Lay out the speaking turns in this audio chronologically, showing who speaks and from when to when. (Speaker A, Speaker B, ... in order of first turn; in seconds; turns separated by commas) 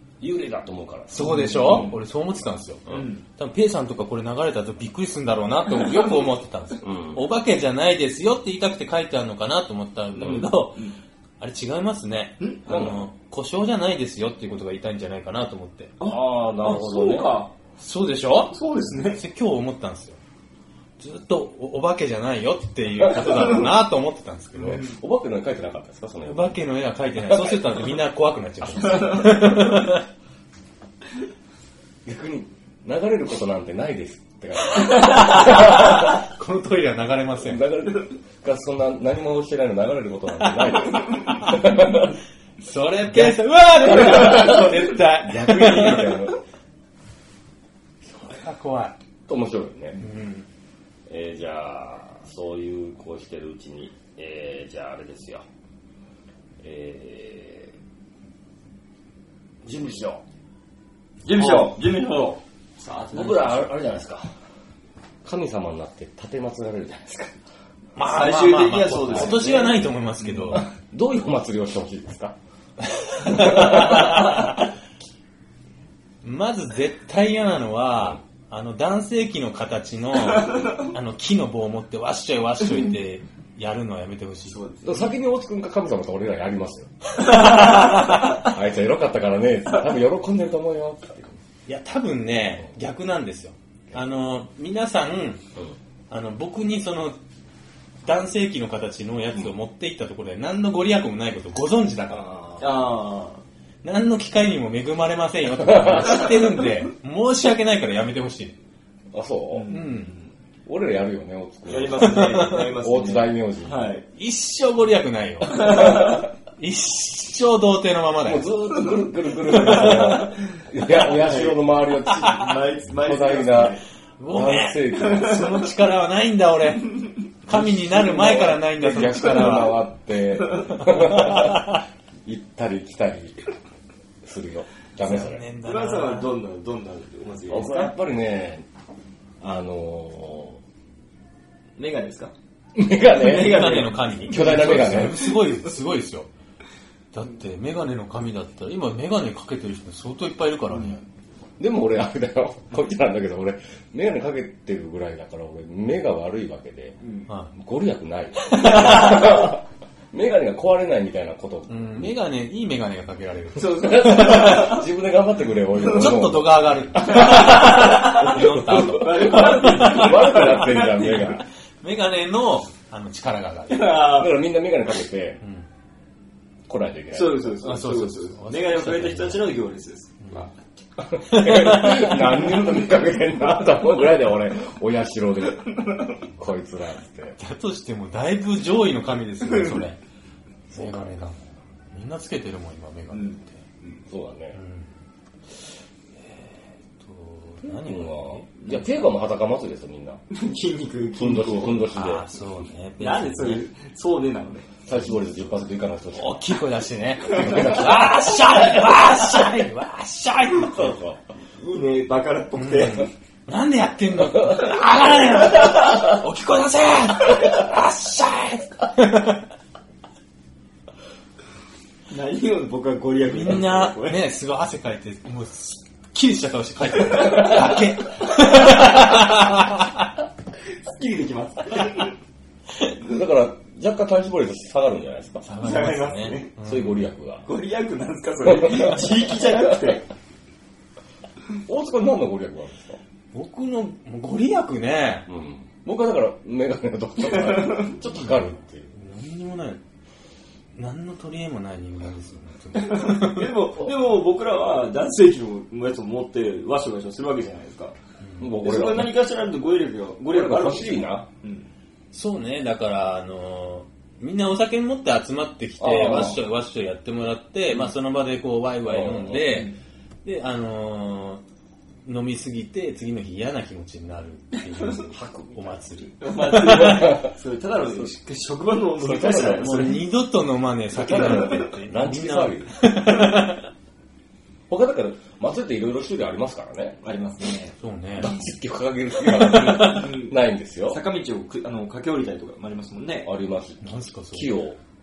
Speaker A: 0.2-2.0, Speaker B: 1.1-15.9, Speaker C: 1.2-1.9, Speaker C: 2.9-3.2, Speaker A: 6.8-7.2, Speaker A: 10.2-10.5, Speaker A: 12.7-13.1, Speaker C: 16.0-17.5, Speaker A: 16.0-17.4, Speaker B: 17.8-18.6, Speaker C: 18.5-19.2, Speaker B: 19.1-20.2, Speaker B: 21.0-24.9, Speaker A: 24.6-26.6, Speaker B: 26.2-30.0, Speaker A: 27.2-27.9, Speaker A: 32.0-36.2, Speaker B: 34.9-37.7, Speaker A: 37.4-42.2, Speaker B: 40.4-41.8, Speaker B: 42.6-46.3, Speaker A: 43.1-46.4, Speaker B: 48.0-49.0, Speaker A: 49.3-50.0, Speaker B: 50.0-50.5, Speaker A: 51.1-55.5, Speaker A: 56.6-57.7, Speaker A: 59.6-60.2, Speaker C: 61.2-63.8, Speaker A: 63.1-64.3, Speaker A: 65.2-67.4, Speaker B: 68.0-70.7, Speaker C: 68.0-70.6, Speaker A: 70.5-72.4, Speaker B: 72.9-74.5, Speaker A: 73.2-74.3, Speaker B: 76.2-84.6, Speaker C: 84.5-85.1, Speaker A: 84.8-87.1, Speaker B: 87.2-88.4, Speaker C: 87.3-88.1, Speaker A: 88.3-91.4, Speaker B: 91.7-95.4, Speaker B: 96.1-97.2, Speaker B: 98.0-102.3, Speaker A: 102.1-102.9, Speaker C: 102.6-103.4, Speaker B: 103.8-108.6, Speaker A: 105.6-106.2, Speaker A: 109.1-109.7, Speaker C: 109.5-110.3, Speaker B: 109.7-110.1, Speaker A: 110.7-113.9, Speaker C: 111.7-114.1, Speaker B: 112.0-112.7, Speaker B: 114.2-118.8, Speaker C: 115.5-116.2, Speaker A: 118.2-125.5, Speaker B: 119.4-120.3, Speaker C: 119.5-123.8, Speaker B: 124.2-129.8, Speaker C: 125.0-125.7, Speaker A: 127.5-133.4, Speaker C: 129.1-129.6, Speaker B: 131.0-131.8, Speaker A: 134.2-135.4, Speaker B: 135.0-136.3, Speaker C: 135.7-137.9, Speaker A: 137.5-138.7, Speaker A: 139.4-140.6, Speaker C: 141.8-142.3, Speaker A: 142.8-145.3, Speaker C: 143.1-145.7, Speaker B: 143.3-146.3, Speaker B: 147.1-151.0, Speaker C: 150.7-151.0, Speaker A: 151.6-157.0, Speaker C: 157.0-157.3, Speaker B: 157.3-157.5, Speaker A: 157.5-162.2, Speaker B: 158.4-159.5, Speaker B: 161.7-164.8, Speaker C: 163.6-164.8, Speaker A: 163.8-171.4, Speaker B: 165.8-174.0, Speaker C: 167.1-171.4, Speaker C: 173.7-174.5, Speaker A: 174.0-175.4, Speaker B: 175.4-175.7, Speaker A: 176.7-177.6, Speaker C: 177.1-180.5, Speaker B: 177.6-179.5, Speaker B: 180.2-180.5, Speaker A: 181.0-187.4, Speaker B: 181.3-182.5, Speaker B: 187.4-190.0, Speaker C: 189.4-189.9, Speaker A: 190.7-191.3, Speaker B: 190.7-191.4, Speaker B: 191.9-193.6, Speaker C: 193.1-194.0, Speaker A: 194.1-194.6, Speaker B: 194.5-194.9, Speaker B: 196.2-198.5, Speaker A: 197.8-200.2, Speaker C: 200.3-201.9, Speaker A: 201.2-202.2, Speaker B: 201.9-203.7, Speaker C: 203.0-204.9, Speaker A: 204.9-206.4, Speaker B: 206.1-211.0, Speaker A: 207.3-208.4, Speaker A: 210.6-211.2, Speaker C: 211.6-213.1, Speaker B: 212.6-219.5, Speaker C: 222.1-224.2, Speaker B: 223.3-230.1, Speaker C: 227.1-227.7, Speaker C: 230.8-232.2, Speaker A: 233.0-235.5, Speaker B: 235.4-237.1, Speaker C: 235.6-236.5, Speaker A: 236.7-237.5, Speaker C: 237.5-240.1, Speaker A: 238.4-239.8, Speaker A: 241.7-243.0, Speaker B: 243.3-245.3, Speaker A: 245.3-248.9, Speaker C: 247.4-247.9, Speaker B: 248.0-249.8, Speaker B: 250.8-253.6, Speaker C: 252.8-258.0, Speaker B: 258.2-258.5, Speaker A: 258.4-259.2, Speaker C: 258.6-261.7, Speaker A: 260.3-261.3, Speaker B: 262.1-269.7, Speaker A: 265.8-266.4, Speaker A: 268.8-269.6, Speaker C: 269.5-269.8, Speaker B: 270.2-271.4, Speaker B: 272.1-277.2, Speaker A: 275.1-275.8, Speaker C: 276.2-280.1, Speaker A: 276.7-277.3, Speaker A: 279.0-279.7, Speaker B: 279.6-283.7, Speaker A: 280.9-282.9, Speaker C: 281.1-281.7, Speaker A: 284.7-287.0, Speaker C: 287.0-287.8, Speaker B: 287.8-288.4, Speaker A: 288.2-291.0, Speaker B: 289.2-290.0, Speaker C: 289.7-293.3, Speaker A: 293.2-294.8, Speaker B: 293.8-294.6